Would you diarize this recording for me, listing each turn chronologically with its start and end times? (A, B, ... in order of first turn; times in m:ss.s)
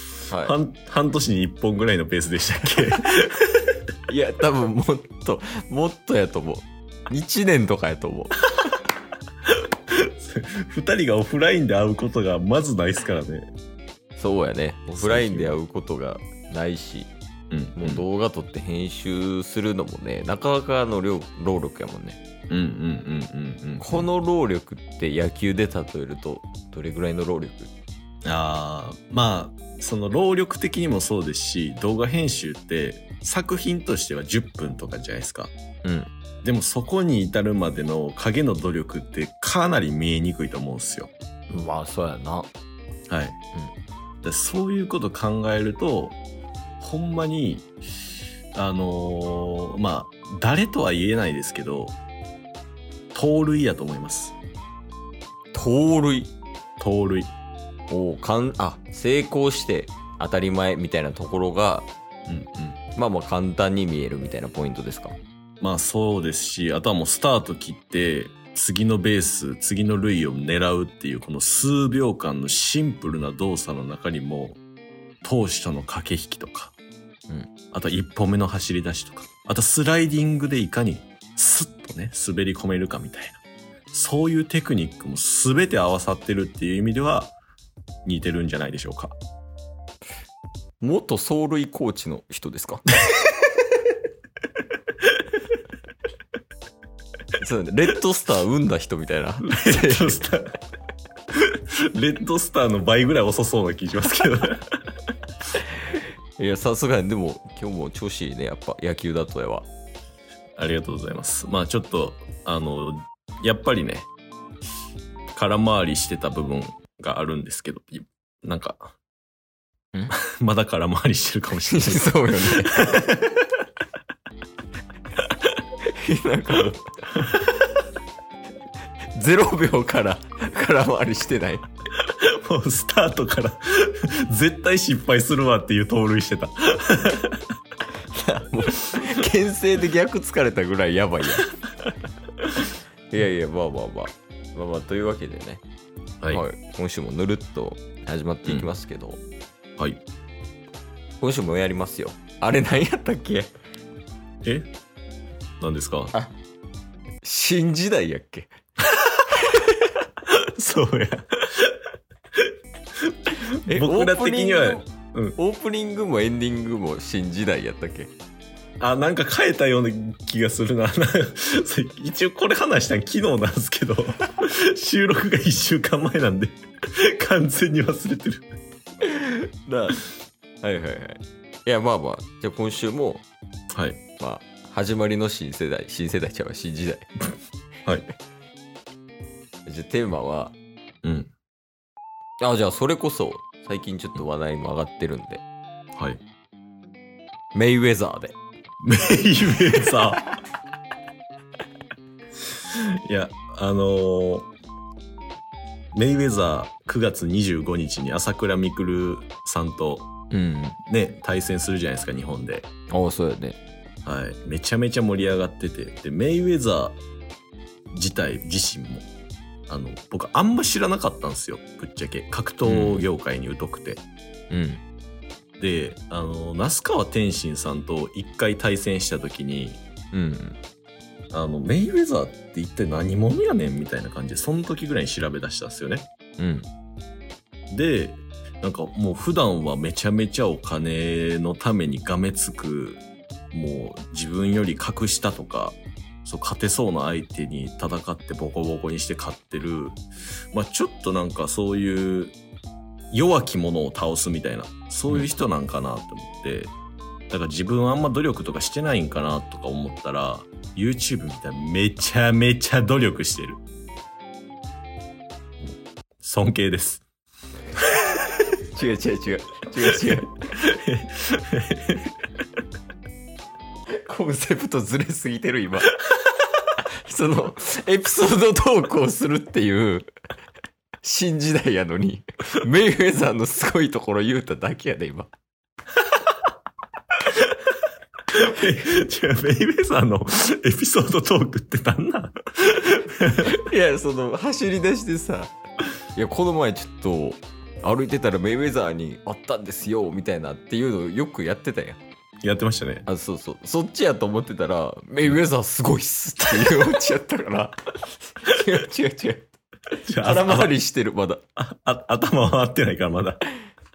0:00.3-0:00.6 A
0:00.4-0:03.7 B
0:04.1-0:08.4 A
0:09.9-0:13.5 B
0:14.2-0:17.1 A
0:15.0-0:15.6 B
0:17.5-0:18.1 B
0:17.8-0:22.2 A
0:22.5-0:24.1 B
0:23.8-0:27.7 A
0:28.2-0:35.5 B
0:35.8-0:36.1 A
0:36.4-0:41.1 B
0:41.5-0:42.5 A
0:43.1-0:43.4 B
0:44.2-0:46.2 B
0:46.8-0:47.7 B
0:48.6-0:52.0 B
0:53.1-0:54.3 B
0:55.5-0:56.3 A
0:56.8-0:57.3 B
0:57.9-1:01.9 A
1:02.3-1:02.8 B
1:03.0-1:05.2 A
1:05.6-1:14.6 B
1:15.2-1:16.7 B
1:17.7-1:23.4 B
1:23.9-1:27.4 B
1:28.0-1:29.2 B
1:30.8-1:32.8 A
1:37.4-1:40.2 A
1:39.4-1:40.6 B
1:41.4-1:44.7 B
1:46.4-1:49.7 A
1:50.6-1:54.1 B
1:55.3-1:59.0 B
2:00.2-2:03.5 B
2:01.6-2:02.8 A
2:05.8-2:06.9 A
2:09.1-2:11.7 A
2:12.0-2:17.4 B
2:18.1-2:21.5 A
2:23.1-2:25.6 A
2:26.3-2:29.2 A
2:28.4-2:28.7 B
2:31.2-2:33.5 A
2:34.4-2:34.7 B
2:35.6-2:36.1 B
2:37.2-2:38.5 A
2:40.3-2:41.8 B
2:43.1-2:45.4 B
2:43.7-2:48.1 A
2:48.8-2:58.6 B
2:59.0-3:00.0 A
3:00.6-3:03.2 A
3:03.7-3:04.0 B
3:04.2-3:07.1 A
3:09.7-3:10.6 A
3:11.0-3:11.3 B
3:12.4-3:15.4 A
3:16.0-3:16.2 B
3:17.5-3:18.4 A
3:18.8-3:20.3 B
3:22.7-3:24.5 B
3:25.9-3:30.1 B
3:30.3-3:30.8 A
3:30.8-3:32.7 B
3:32.9-3:33.6 A
3:34.0-3:37.0 B
3:37.9-3:39.1 B
3:39.7-3:44.0 B
3:42.6-3:43.1 A
3:44.5-3:44.8 A
3:45.6-3:49.8 B
3:50.1-3:50.6 A
3:51.3-3:56.1 B
3:56.4-3:56.7 A
3:57.7-4:12.4 B
4:13.1-4:16.7 B
4:17.3-4:23.6 B
4:26.2-4:27.0 B
4:28.7-4:30.5 A
4:29.9-4:32.2 B
4:34.0-4:36.1 A
4:36.6-4:40.1 A
4:41.0-4:45.3 A
4:48.3-4:53.6 B
4:53.4-4:55.5 A
4:56.2-5:02.0 A
5:02.4-5:03.1 B
5:03.1-5:07.8 A
5:08.3-5:09.4 A
5:10.0-5:10.8 B
5:10.2-5:11.4 A
5:11.6-5:13.4 B